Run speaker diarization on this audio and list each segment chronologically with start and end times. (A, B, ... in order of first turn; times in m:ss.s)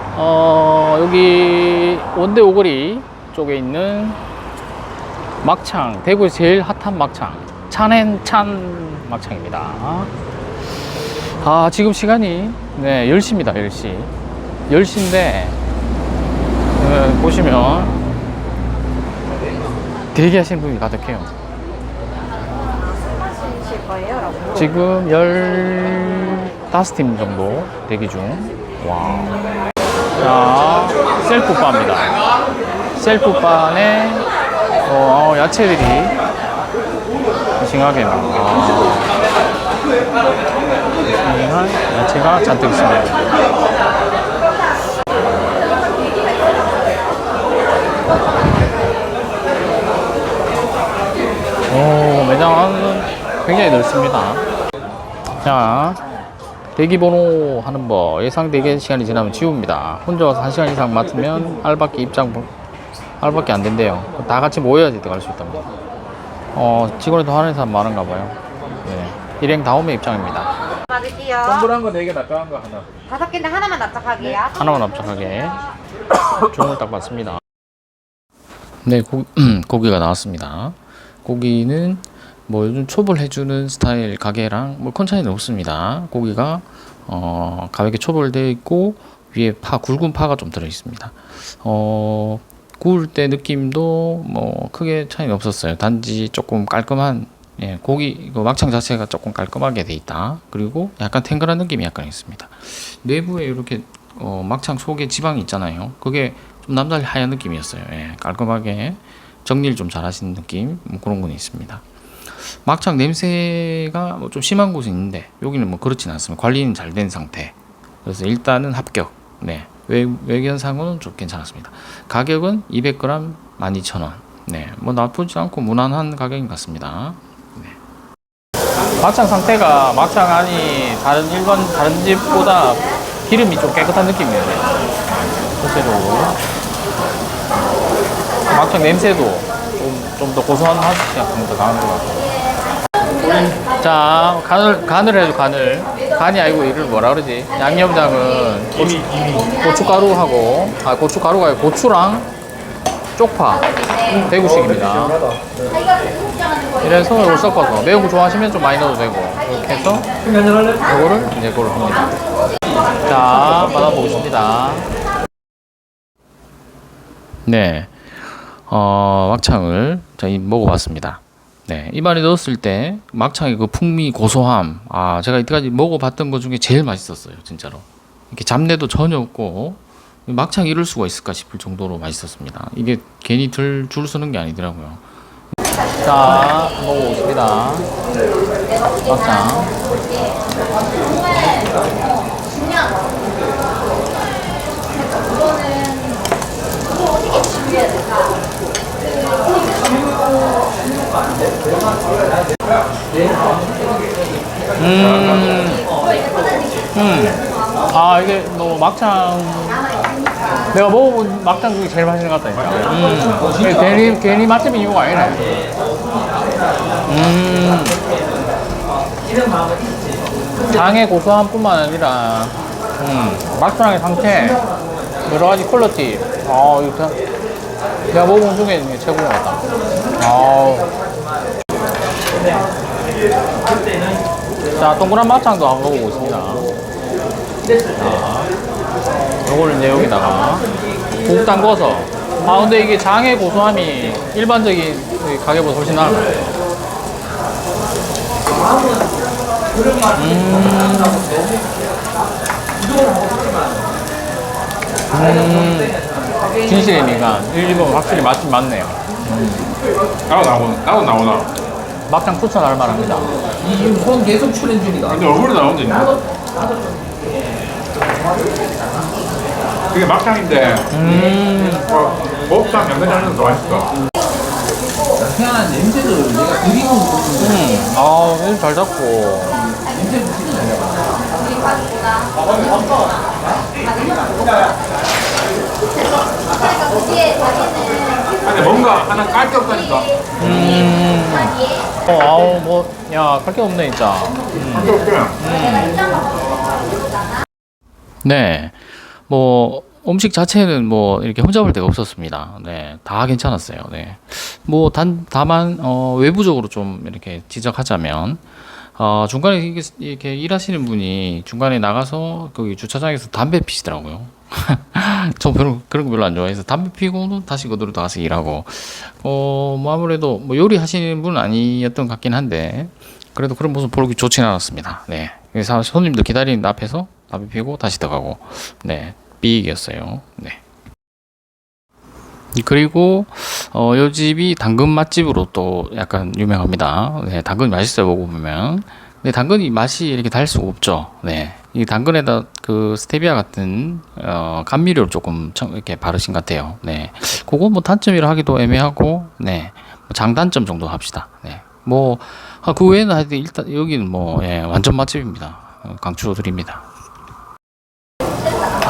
0:00.1-0:04.2 A
0:05.4-0:10.1 A
0:11.4-0:14.1 A
0:14.7-0:15.6 A
0:16.8-0:18.0 A
0:20.1-0:21.3 A
0:23.7-0:24.4 B
0:24.5-0:29.4 A
0:30.2-0:32.2 A
0:33.0-0:34.3 A
0:34.8-0:36.2 A
0:37.6-0:39.2 A
0:41.2-0:43.3 A
0:51.7-0:54.4 A
0:55.4-0:56.0 A
0:56.8-1:02.5 A
1:03.2-1:05.7 A
1:06.5-1:10.5 A
1:11.0-1:11.3 B
1:11.4-1:12.9 A
1:13.2-1:14.2 B
1:14.2-1:15.6 A
1:16.3-1:17.4 A
1:18.8-2:07.8 A
2:09.0-2:14.7 A
2:15.6-2:16.4 A
2:18.5-2:22.3 A
2:23.3-2:32.3 A
2:29.1-2:29.5 C
2:33.2-2:35.2 A
2:36.8-2:40.1 A
2:40.8-2:42.2 A
2:43.0-2:44.9 A
2:47.5-3:05.0 A
3:06.0-3:07.9 A
3:09.0-3:09.7 A
3:24.8-3:25.9 A
3:25.1-3:25.4 C
3:26.9-3:29.9 A
3:30.7-3:35.7 A
3:37.1-3:38.0 A
3:40.7-3:44.6 A
3:45.2-3:47.2 A
3:48.1-3:50.9 A
3:54.8-3:56.7 A
3:58.0-3:58.5 A
3:59.4-4:00.7 A
4:01.2-4:06.6 A
4:10.1-4:11.4 A
4:15.1-4:16.0 A
4:16.6-4:19.6 A
4:20.3-4:21.5 C
4:22.1-4:23.3 A
4:23.6-4:25.1 D
4:25.1-4:26.2 C
4:29.9-4:31.2 C
4:30.9-4:31.9 A
4:31.9-4:34.0 C
4:35.2-4:37.4 D
4:37.4-4:39.6 A
4:39.8-4:41.2 D
4:48.4-4:50.3 C
4:50.4-4:56.1 A
4:54.7-4:55.4 C
4:58.2-5:30.6 A
5:32.6-5:56.8 A